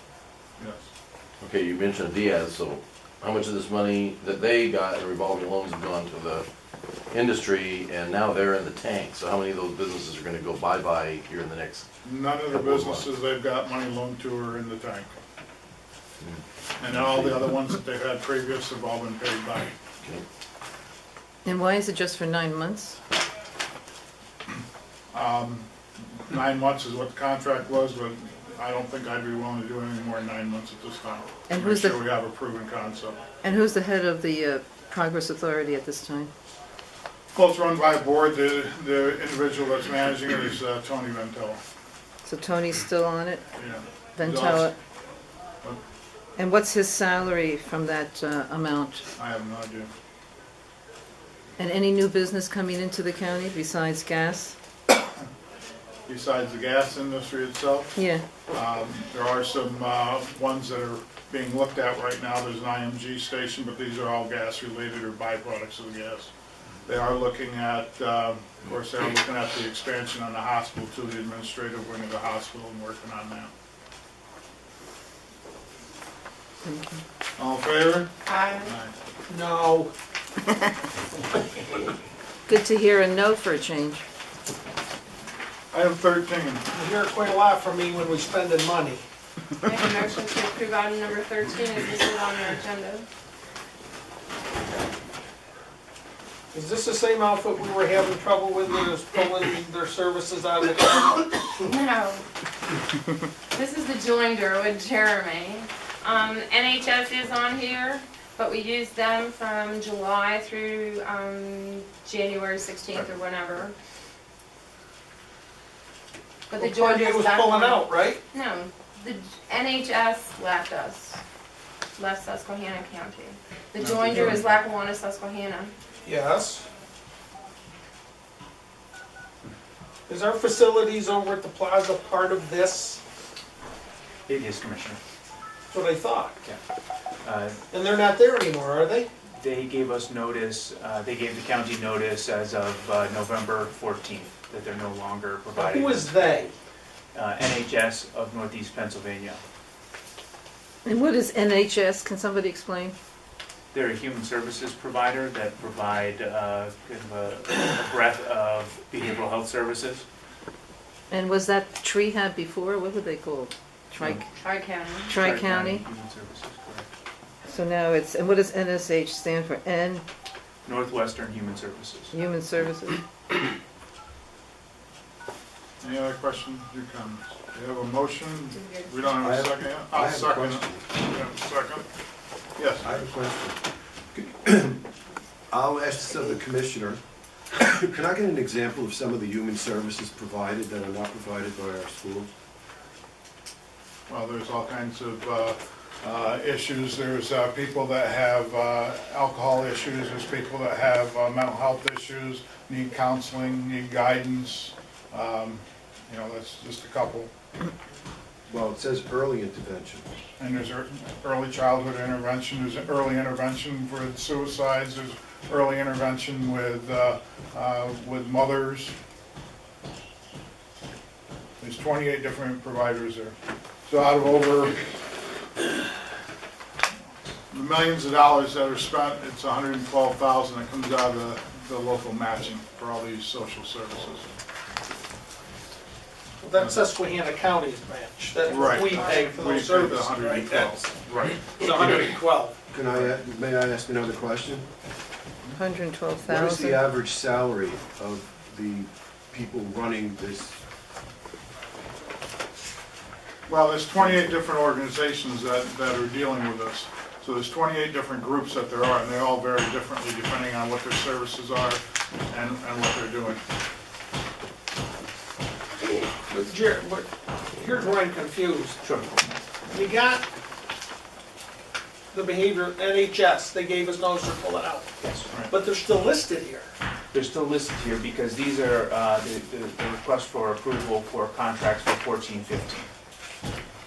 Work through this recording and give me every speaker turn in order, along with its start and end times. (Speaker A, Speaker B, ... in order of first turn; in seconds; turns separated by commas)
Speaker A: 0.6-0.9, Speaker B: 1.4-6.5, Speaker B: 7.1-11.9, Speaker A: 12.0-15.2, Speaker B: 12.4-13.1, Speaker B: 16.2-17.4, Speaker A: 16.8-19.7, Speaker C: 21.4-23.0, Speaker A: 25.1-33.2, Speaker C: 31.5-32.0, Speaker C: 33.4-36.3, Speaker A: 37.3-41.6, Speaker C: 42.2-43.5, Speaker A: 43.6-44.7, Speaker C: 44.1-44.7, Speaker C: 46.4-49.0, Speaker A: 49.2-49.9, Speaker C: 51.6-54.5, Speaker A: 56.1-57.9, Speaker C: 58.0-58.2, Speaker A: 58.5-66.3, Speaker A: 66.8-73.5, Speaker C: 76.6-77.0, Speaker A: 77.4-78.9, Speaker D: 78.3-78.7, Speaker E: 79.3-79.9, Speaker C: 82.5-84.0, Speaker A: 85.7-86.6, Speaker E: 86.7-89.0, Speaker D: 89.6-93.0, Speaker E: 96.5-101.4, Speaker D: 101.5-102.2, Speaker D: 103.5-113.7, Speaker D: 116.5-121.2, Speaker E: 116.5-118.2, Speaker D: 122.0-125.7, Speaker A: 123.8-124.4, Speaker E: 124.1-124.4, Speaker E: 126.0-126.7, Speaker E: 130.1-133.0, Speaker F: 134.3-135.0, Speaker E: 135.7-136.3, Speaker F: 137.2-137.6, Speaker E: 137.7-139.1, Speaker F: 139.3-146.3, Speaker E: 145.5-146.5, Speaker F: 147.1-149.4, Speaker C: 150.8-152.9, Speaker F: 153.7-160.0, Speaker C: 161.1-164.3, Speaker D: 164.3-165.1, Speaker C: 165.1-165.8, Speaker F: 165.1-166.9, Speaker C: 167.4-170.0, Speaker F: 170.6-172.1, Speaker C: 172.1-173.0, Speaker A: 175.8-181.8, Speaker D: 178.5-179.0, Speaker G: 179.2-180.8, Speaker A: 182.6-182.9, Speaker G: 182.8-183.6, Speaker G: 184.1-184.9, Speaker G: 185.5-187.0, Speaker G: 187.5-192.3, Speaker A: 194.1-207.3, Speaker G: 208.5-210.1, Speaker A: 210.4-218.9, Speaker A: 221.6-224.8, Speaker A: 227.5-234.3, Speaker E: 236.4-242.6, Speaker A: 238.4-242.0, Speaker G: 242.7-244.7, Speaker C: 245.6-246.8, Speaker G: 246.2-250.6, Speaker A: 253.5-263.4, Speaker E: 266.3-268.8, Speaker F: 268.8-269.1, Speaker E: 269.7-270.2, Speaker E: 272.1-274.9, Speaker F: 275.0-275.3, Speaker E: 275.5-276.7, Speaker F: 277.1-282.9